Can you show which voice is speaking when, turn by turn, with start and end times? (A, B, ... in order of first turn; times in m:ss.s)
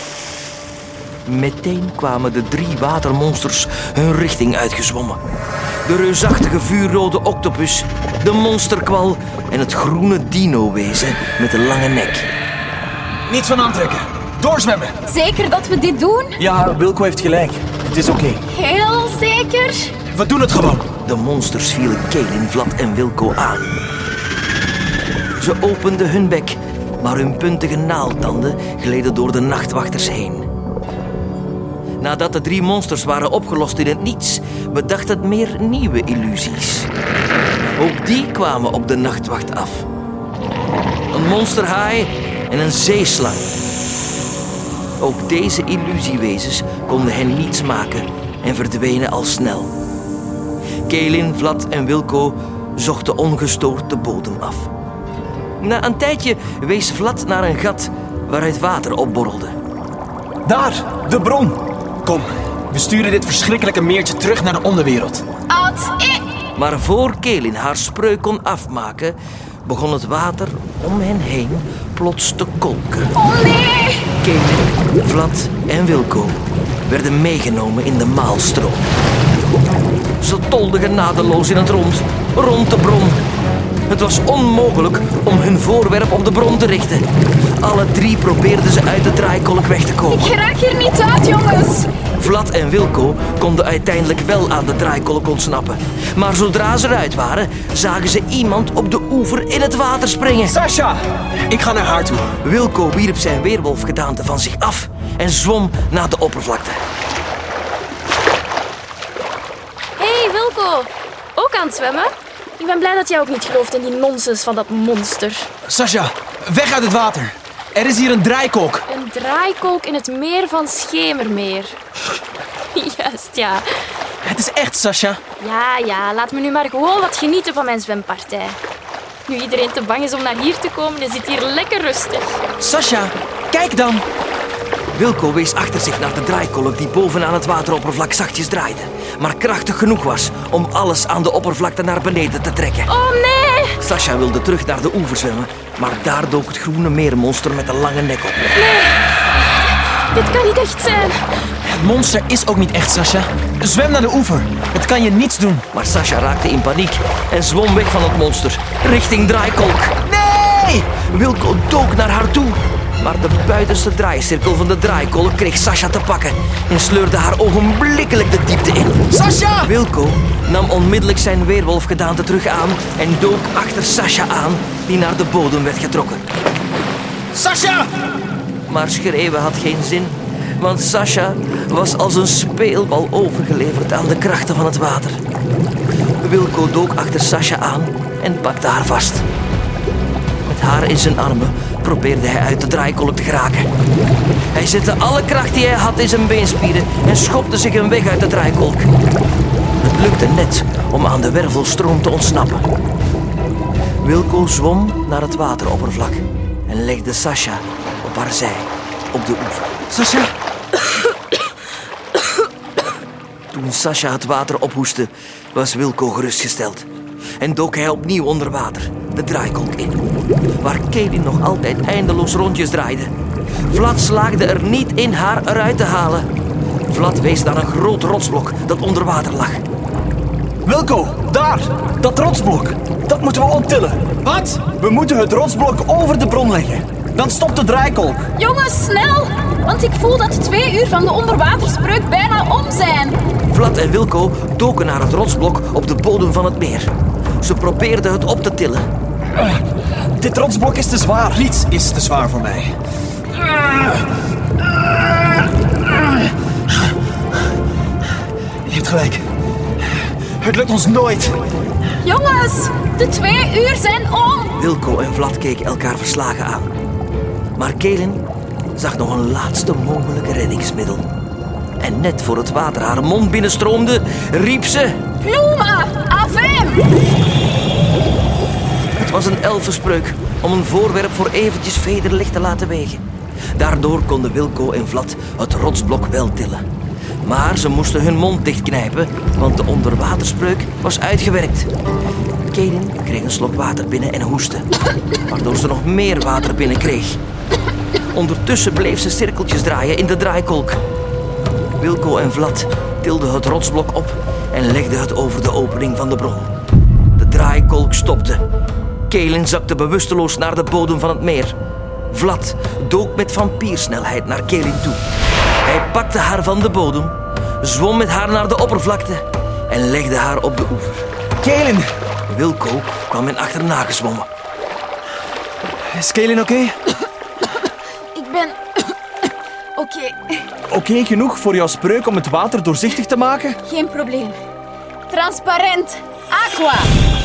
0:01.2-0:05.2 A
0:05.8-0:12.3 A
0:13.3-0:14.9 B
0:15.1-0:16.4 C
0:16.4-0:18.4 D
0:18.5-0:19.9 C
0:20.1-0:20.9 B
0:21.0-0:23.8 A
0:25.4-0:30.5 A
0:32.0-0:36.9 A
0:37.8-0:39.9 A
0:41.1-0:43.5 A
0:45.0-0:49.7 A
0:50.9-0:54.7 A
0:55.6-0:59.5 A
1:00.4-1:01.1 B
1:01.0-1:01.6 D
1:02.0-1:05.2 B
1:05.5-1:06.2 C
1:06.6-1:13.1 A
1:13.1-1:14.1 C
1:14.2-1:18.9 A
1:20.2-1:23.2 A
1:23.9-1:27.0 A
1:27.6-1:30.3 A
1:30.1-1:31.9 C
1:32.2-1:40.5 A
1:40.4-1:42.3 B
1:42.4-1:46.8 A
1:50.0-1:55.5 E
1:55.6-1:58.8 B
1:58.9-2:01.8 E
2:02.7-2:03.6 E
2:04.2-2:05.2 B
2:05.4-2:08.6 E
2:09.3-2:12.4 E
2:12.6-2:14.0 B
2:14.9-2:22.9 A
2:22.9-2:23.8 E
2:23.8-2:28.5 A
2:28.6-2:31.2 E
2:31.6-2:35.7 B
2:35.7-2:39.9 A
2:40.1-2:40.8 B
2:40.9-2:49.0 A
2:49.1-2:49.7 B
2:49.6-2:56.2 A
2:57.3-2:57.9 B
2:58.7-3:05.2 A
3:06.2-3:09.3 A
3:10.4-3:13.7 A
3:14.5-3:18.9 A
3:19.8-3:22.6 A
3:24.0-3:29.8 A
3:29.9-3:30.3 B
3:33.5-3:36.9 A
3:37.4-3:40.0 A
3:40.6-3:43.1 A
3:43.7-3:46.3 A
3:46.9-3:49.6 A
3:50.6-3:58.3 D
3:54.2-3:54.6 B
3:58.4-4:03.2 C
4:03.5-4:08.9 A
4:10.2-4:11.4 D
4:11.3-4:12.7 B
4:18.6-4:19.2 B
4:20.4-4:21.5 B
4:22.0-4:24.6 C
4:24.6-4:26.7 A
4:27.6-4:28.2 A
4:28.8-4:31.1 A
4:31.8-4:35.0 A
4:35.2-4:36.9 C
4:39.0-4:43.0 A
4:43.5-4:46.6 A
4:47.2-4:51.7 A
4:52.5-4:54.6 A
4:55.3-4:57.2 A
4:58.1-5:00.8 A
5:01.8-5:06.5 A
5:07.2-5:08.4 A
5:09.1-5:11.6 A
5:12.1-5:15.0 A
5:15.6-5:21.1 A
5:21.4-5:21.9 D
5:22.3-5:24.3 A
5:25.9-5:26.8 B
5:28.1-5:28.9 C
5:29.8-5:30.5 C
5:30.7-5:33.6 D
5:33.6-5:34.4 C
5:35.1-5:36.9 C